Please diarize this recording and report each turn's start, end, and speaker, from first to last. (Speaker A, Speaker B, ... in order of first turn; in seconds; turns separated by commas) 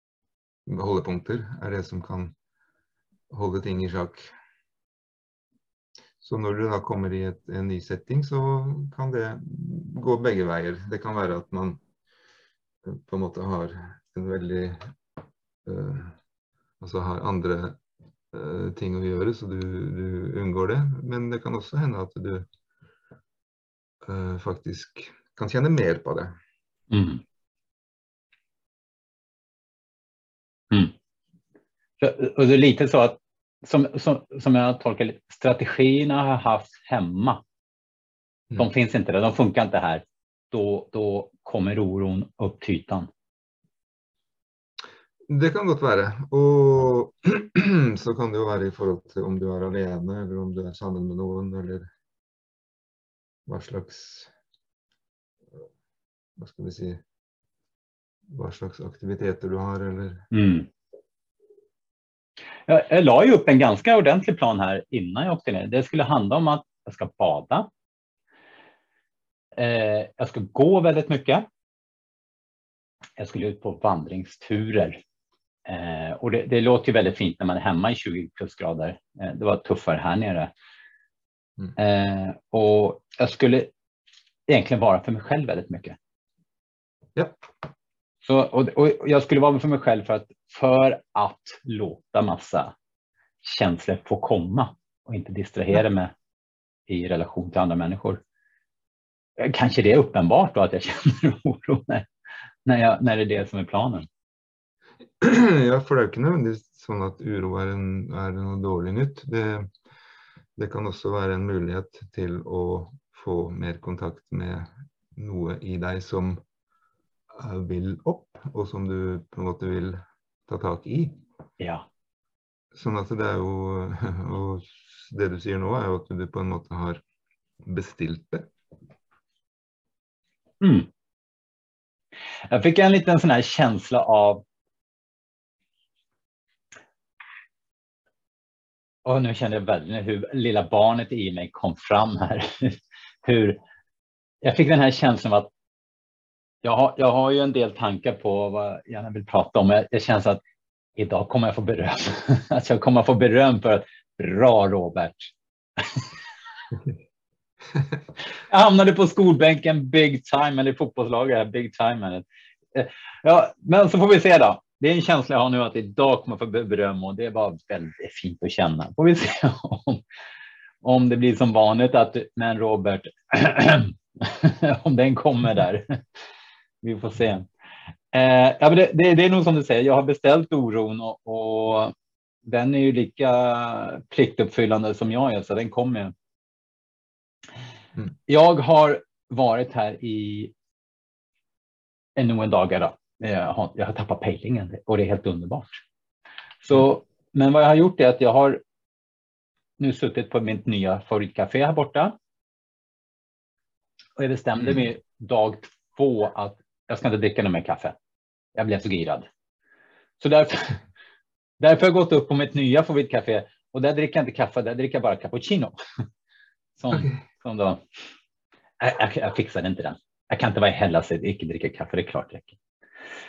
Speaker A: 0.7-2.3, Speaker A: 3.3-4.3, Speaker A: 6.2-11.8, Speaker A: 12.8-14.8, Speaker A: 15.7-16.2, Speaker A: 16.8-17.8, Speaker A: 18.3-22.5, Speaker A: 24.1-26.4, Speaker B: 26.9-27.2, Speaker B: 32.0-37.4, Speaker B: 38.6-43.1, Speaker A: 45.3-51.9, Speaker A: 53.5-54.3, Speaker A: 56.4-57.0, Speaker A: 58.3-60.3, Speaker B: 60.3-60.7, Speaker B: 62.7-67.7, Speaker B: 69.6-71.5, Speaker B: 73.2-75.0, Speaker B: 75.7-80.5, Speaker B: 81.8-83.7, Speaker B: 84.5-86.0, Speaker B: 88.2-92.7, Speaker B: 93.4-96.1, Speaker B: 96.9-98.2, Speaker B: 99.4-102.1, Speaker B: 102.7-104.1, Speaker A: 105.2-109.7, Speaker A: 110.6-116.4, Speaker A: 117.3-121.2, Speaker B: 121.6-121.9, Speaker A: 122.7-127.0, Speaker A: 127.6-128.5, Speaker B: 130.6-130.9, Speaker B: 132.5-134.4, Speaker B: 139.1-143.6, Speaker B: 144.4-145.5, Speaker B: 146.6-150.4, Speaker B: 151.0-156.1, Speaker B: 158.4-170.0, Speaker B: 170.8-176.0, Speaker B: 176.8-177.5, Speaker B: 178.1-181.9, Speaker B: 182.4-186.1, Speaker B: 188.3-190.5, Speaker B: 192.2-195.8, Speaker B: 196.6-198.6, Speaker B: 199.8-202.1, Speaker B: 204.2-208.0, Speaker B: 208.6-209.3, Speaker B: 210.2-210.8, Speaker B: 211.6-215.8, Speaker B: 216.8-217.8, Speaker A: 216.9-217.2, Speaker B: 218.8-222.6